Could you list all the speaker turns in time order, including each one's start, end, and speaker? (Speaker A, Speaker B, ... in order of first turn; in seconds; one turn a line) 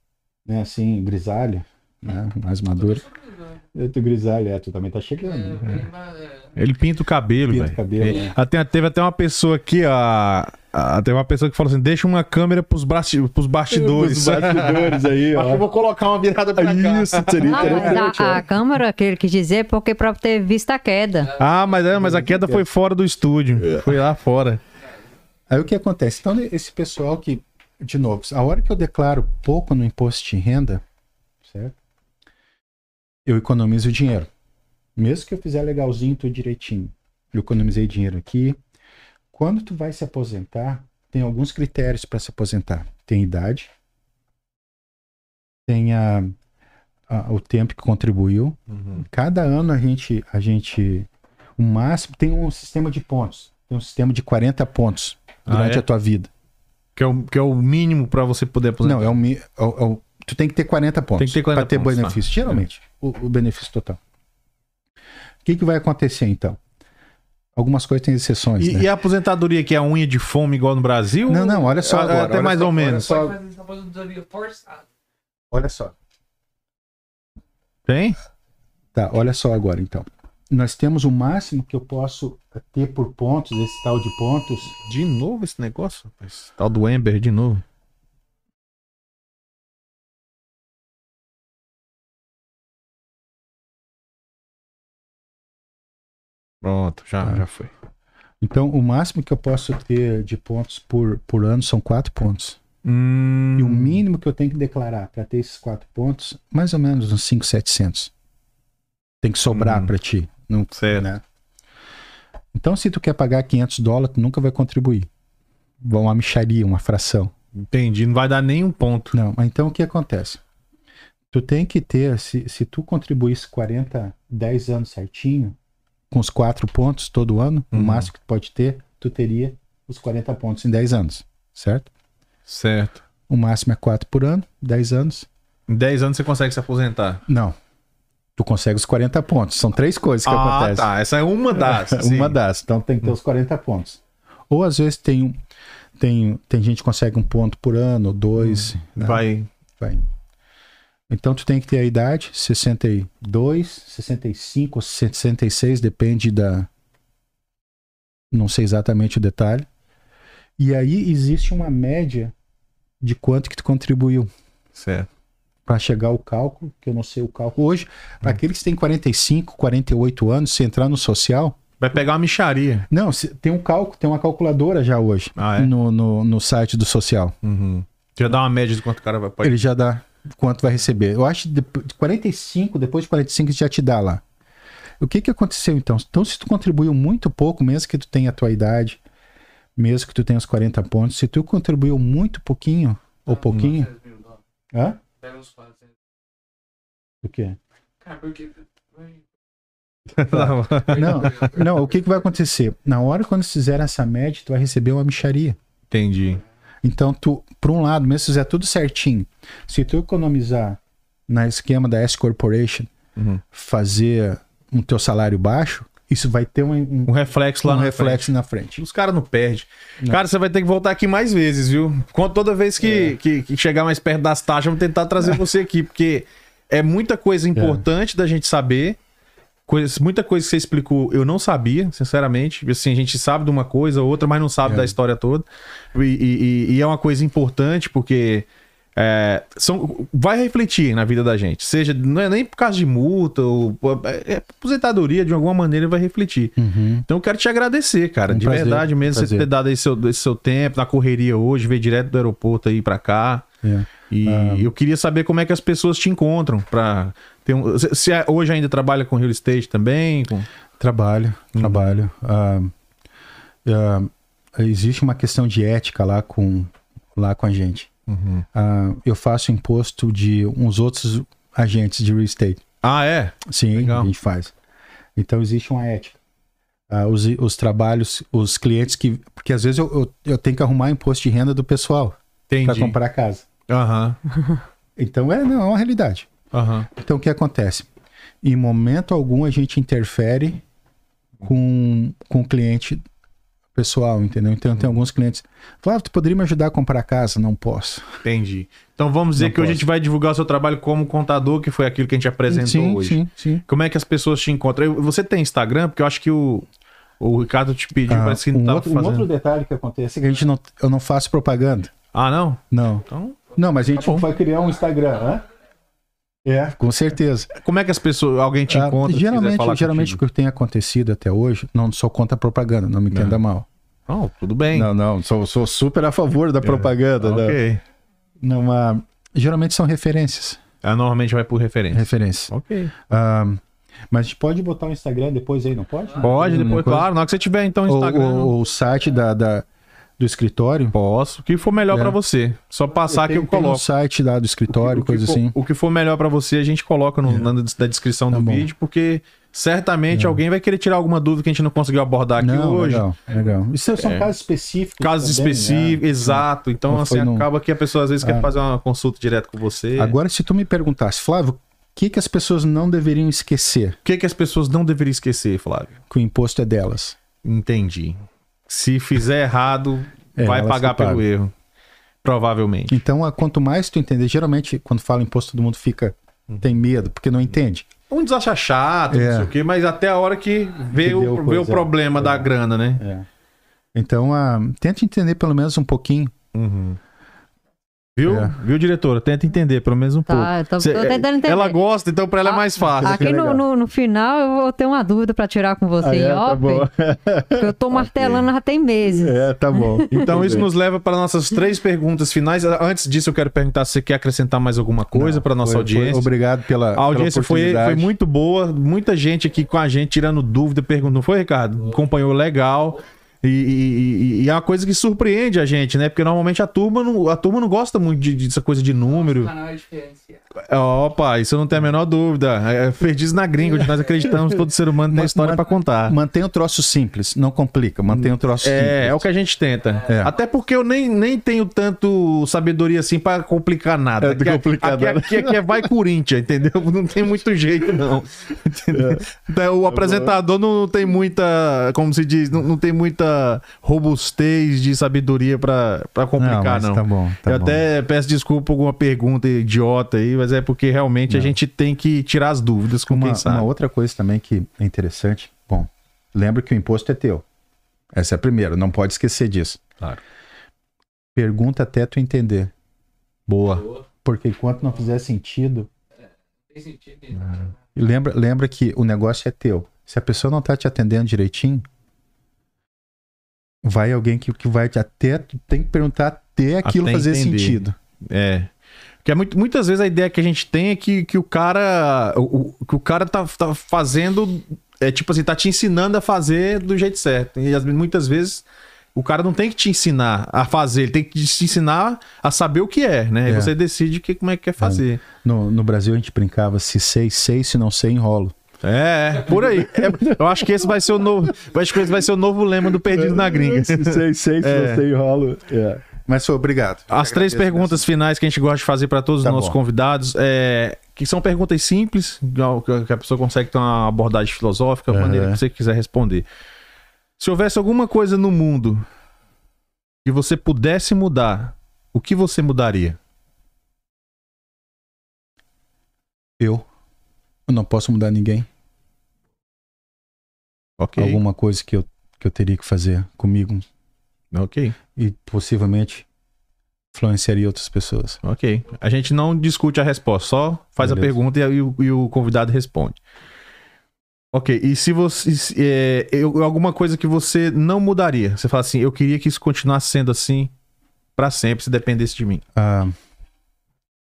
Speaker A: 0.5-3.0
Speaker A: 3.7-5.8
Speaker B: 5.3-6.5
Speaker C: 6.5-18.1
Speaker A: 7.5-8.3
Speaker A: 13.7-15.6
Speaker A: 16.6-18.5
Speaker D: 17.4-21.3
Speaker C: 21.4-24.6
Speaker A: 21.9-22.6
Speaker A: 25.5-30.8
Speaker A: 31.4-31.8
Speaker A: 33.2-34.3
Speaker A: 35.0-38.6
Speaker A: 39.3-43.7
Speaker A: 45.7-46.3
Speaker A: 47.1-56.3
Speaker C: 48.7-49.0
Speaker C: 55.5-55.8
Speaker C: 57.0-59.2
Speaker A: 58.8-64.0
Speaker C: 61.2-62.6
Speaker A: 65.4-66.6
Speaker A: 67.5-68.9
Speaker C: 68.6-73.1
Speaker A: 71.2-73.4
Speaker B: 72.8-74.8
Speaker A: 75.5-75.9
Speaker C: 77.8-78.2
Speaker A: 78.9-84.7
Speaker C: 84.8-87.6
Speaker C: 96.6-97.7
Speaker A: 98.4-102.6
Speaker C: 102.8-104.0
Speaker A: 103.5-108.1
Speaker A: 109.2-111.2
Speaker C: 109.5-109.9
Speaker C: 110.7-111.0
Speaker A: 112.5-115.1
Speaker A: 115.8-117.3
Speaker C: 117.6-119.2
Speaker A: 119.1-120.4
Speaker A: 121.3-125.5
Speaker A: 126.1-131.9
Speaker C: 127.7-128.1
Speaker C: 132.5-133.0
Speaker A: 133.3-135.3
Speaker C: 135.7-137.2
Speaker A: 137.3-137.6
Speaker A: 138.3-140.9
Speaker C: 140.2-142.4
Speaker A: 141.5-145.4
Speaker A: 146.0-149.2
Speaker C: 148.4-149.5
Speaker A: 149.8-150.1
Speaker A: 151.1-156.7
Speaker A: 158.3-159.7
Speaker A: 160.6-162.3
Speaker A: 163.0-164.3
Speaker C: 164.7-165.1
Speaker A: 165.7-171.6
Speaker C: 171.8-172.9
Speaker A: 172.9-177.3
Speaker C: 175.3-175.7
Speaker C: 177.4-179.6
Speaker A: 179.4-184.2
Speaker A: 185.0-189.0
Speaker A: 189.8-193.9
Speaker B: 193.5-194.4
Speaker A: 194.7-195.0
Speaker B: 195.2-195.9
Speaker A: 197.2-197.6
Speaker B: 198.0-199.2
Speaker C: 200.1-201.6
Speaker A: 200.2-205.6
Speaker B: 201.0-201.8
Speaker C: 205.9-206.4
Speaker A: 206.8-212.9
Speaker C: 213.2-213.4
Speaker A: 213.5-218.8
Speaker C: 217.1-229.0
Speaker A: 222.8-223.2
Speaker A: 227.6-227.8
Speaker C: 229.7-246.5
Speaker A: 234.6-234.9
Speaker A: 246.6-247.1
Speaker C: 247.1-253.5
Speaker A: 248.3-249.5
Speaker A: 253.6-254.7
Speaker C: 254.1-260.5
Speaker A: 260.8-262.7
Speaker C: 261.6-262.0
Speaker A: 263.6-267.9
Speaker C: 268.1-268.4
Speaker A: 268.5-272.6
Speaker C: 272.8-274.1
Speaker A: 273.4-274.5
Speaker A: 275.1-276.2
Speaker A: 276.9-283.5
Speaker C: 282.5-283.0
Speaker C: 283.7-284.6
Speaker A: 285.0-286.3
Speaker C: 286.5-286.9
Speaker A: 286.9-287.9
Speaker A: 288.4-290.6
Speaker A: 291.4-293.0
Speaker A: 293.7-298.1
Speaker C: 298.2-306.7
Speaker A: 299.4-299.8
Speaker A: 302.5-303.6
Speaker C: 307.2-309.3
Speaker A: 308.1-311.9
Speaker C: 312.1-314.3
Speaker A: 312.7-315.5
Speaker A: 316.4-317.5
Speaker C: 317.5-320.2
Speaker A: 318.7-323.6
Speaker C: 323.1-323.4
Speaker C: 324.1-324.9
Speaker A: 324.7-327.6
Speaker C: 326.6-327.8
Speaker A: 328.4-330.6
Speaker C: 330.8-332.9
Speaker A: 331.9-332.5
Speaker A: 333.1-337.1
Speaker C: 336.2-338.5
Speaker A: 337.8-339.6
Speaker A: 340.2-340.9
Speaker C: 340.9-343.8
Speaker A: 341.9-342.2
Speaker A: 343.1-345.6
Speaker C: 344.7-353.1
Speaker A: 348.3-348.7
Speaker A: 350.1-350.4
Speaker A: 352.4-357.5
Speaker C: 354.0-354.3
Speaker C: 355.0-360.1
Speaker A: 358.2-358.5
Speaker A: 359.9-363.9
Speaker C: 364.0-365.9
Speaker A: 366.1-367.1
Speaker C: 367.4-371.5
Speaker A: 370.4-371.2
Speaker C: 372.2-373.0
Speaker A: 372.9-377.9
Speaker C: 378.1-383.0
Speaker A: 379.1-379.5
Speaker A: 380.9-383.3
Speaker A: 383.9-386.3
Speaker C: 386.5-387.0
Speaker C: 388.1-393.3
Speaker A: 388.2-388.6
Speaker D: 390.3-391.8
Speaker D: 392.4-396.9
Speaker A: 393.0-393.6
Speaker A: 396.0-398.4
Speaker D: 397.5-400.2
Speaker A: 399.0-400.7
Speaker C: 400.2-406.3
Speaker A: 405.1-408.1
Speaker C: 406.9-419.5
Speaker B: 419.1-420.4
Speaker C: 420.6-426.1
Speaker B: 423.7-424.5
Speaker A: 425.1-429.2
Speaker C: 428.2-453.7
Speaker B: 429.9-430.4
Speaker A: 430.1-430.3
Speaker A: 434.2-435.9
Speaker A: 438.9-439.3
Speaker A: 439.9-440.4
Speaker A: 446.4-447.8
Speaker A: 451.3-451.6
Speaker A: 453.1-457.4
Speaker A: 458.1-459.8
Speaker A: 461.3-462.7
Speaker C: 463.5-463.9
Speaker B: 463.7-464.0
Speaker A: 464.2-465.9
Speaker B: 466.7-467.7
Speaker A: 467.9-471.9
Speaker A: 473.8-477.9
Speaker C: 476.8-478.7
Speaker C: 479.2-495.2
Speaker A: 493.4-493.7
Speaker A: 494.8-498.5
Speaker C: 498.8-505.0
Speaker A: 499.6-500.7
Speaker A: 502.9-508.1
Speaker C: 507.1-516.4
Speaker A: 509.4-509.8
Speaker A: 515.1-515.6
Speaker C: 517.4-519.0
Speaker C: 520.2-523.2
Speaker A: 526.6-526.9
Speaker A: 527.7-528.7
Speaker C: 531.0-531.4
Speaker A: 531.2-533.8
Speaker C: 534.5-535.0
Speaker A: 535.1-536.2
Speaker A: 537.1-538.4
Speaker C: 538.4-543.2
Speaker A: 541.0-541.4
Speaker C: 544.5-550.7
Speaker C: 551.4-552.6
Speaker A: 552.8-553.1